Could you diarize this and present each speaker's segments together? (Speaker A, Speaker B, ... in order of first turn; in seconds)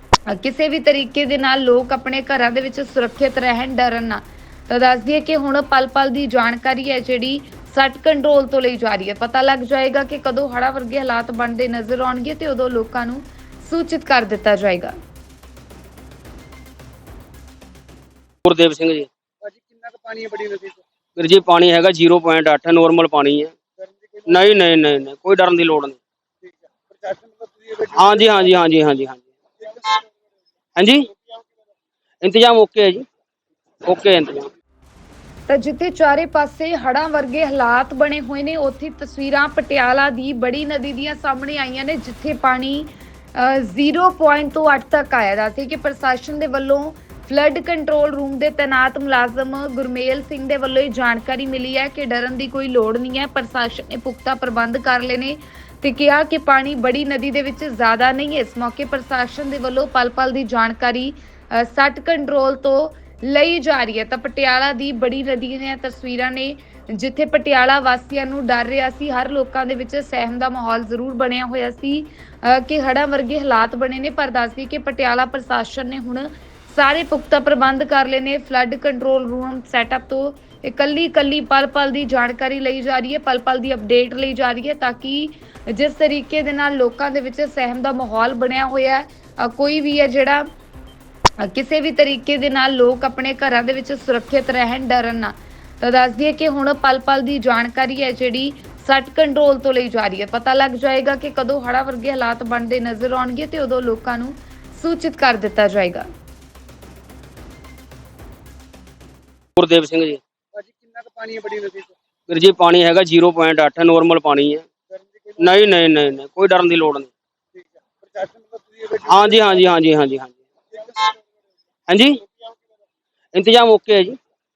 Speaker A: 0.3-14.9, 35.5-90.5, 91.4-106.1
Speaker B: 18.4-19.1, 21.2-23.5, 24.3-26.0, 27.9-29.3, 30.8-31.1, 32.2-33.1, 33.9-34.5, 109.6-110.2, 112.3-114.7, 115.4-117.1, 119.1-120.4, 121.9-122.2, 123.3-124.2
Speaker C: 19.4-20.8, 23.8-24.3, 26.4-28.4, 110.5-111.9, 114.9-115.4, 117.5-119.6